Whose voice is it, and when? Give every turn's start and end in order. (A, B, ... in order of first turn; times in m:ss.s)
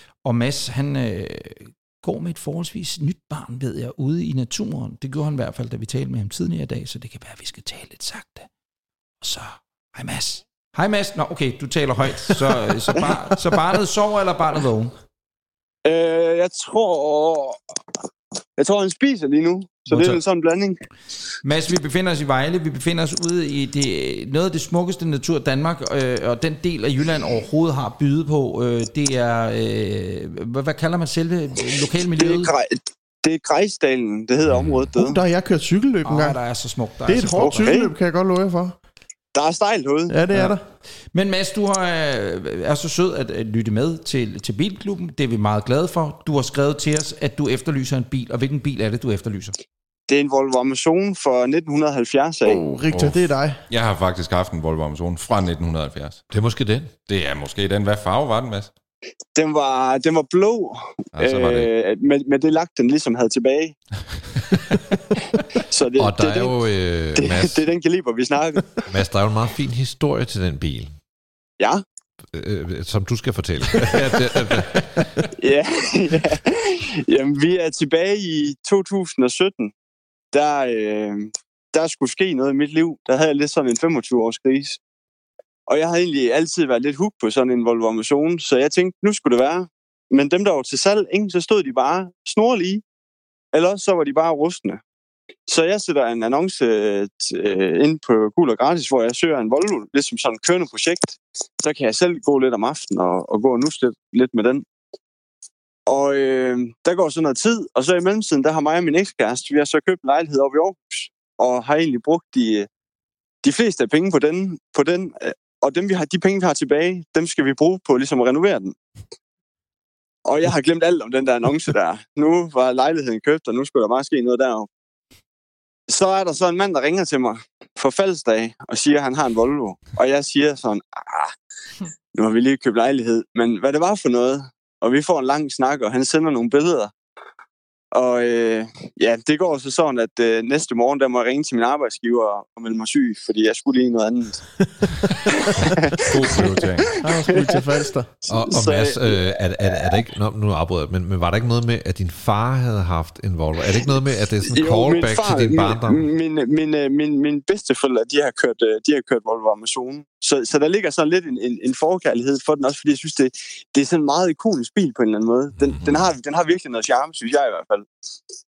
0:00.2-0:08.5 A
0:09.2-0:14.9 A
0:15.8-0:17.6 B
0:18.6-0:20.8 B
0:19.9-0:20.2 A
0:21.4-0:32.5 A
0:32.2-0:35.2 B
0:34.4-0:34.9 C
0:35.0-0:36.4 D
0:36.0-0:37.7 A
0:37.0-0:38.8 D
0:37.6-0:37.9 B
0:39.3-0:40.2 B
0:40.1-0:40.6 D
0:41.1-0:49.6 A
0:50.1-0:52.6 B
0:52.5-0:56.2 C
0:52.5-0:53.6 D
0:56.3-0:56.9 E
0:57.1-0:58.7 C
0:59.4-1:03.8 B
1:01.1-1:01.7 C
1:05.6-1:06.6 B
1:06.0-1:07.6 E
1:07.2-1:08.8 B
1:08.9-1:11.0 E
1:12.3-1:15.1 E
1:15.4-1:19.7 B
1:20.3-1:24.8 B
1:25.7-1:32.8 B
1:33.5-1:34.8 B
1:35.5-1:44.6 B
1:45.9-1:52.7 B
1:53.4-1:58.8 B
2:00.2-2:04.7 B
2:05.9-2:11.3 B
2:12.1-2:16.9 B
2:17.9-2:24.4 B
2:25.4-2:27.7 B
2:26.0-2:26.9 C
2:27.0-2:28.1 D
2:28.3-2:29.2 B
2:28.3-2:36.1 E
2:34.5-2:47.9 B
2:45.7-2:46.0 C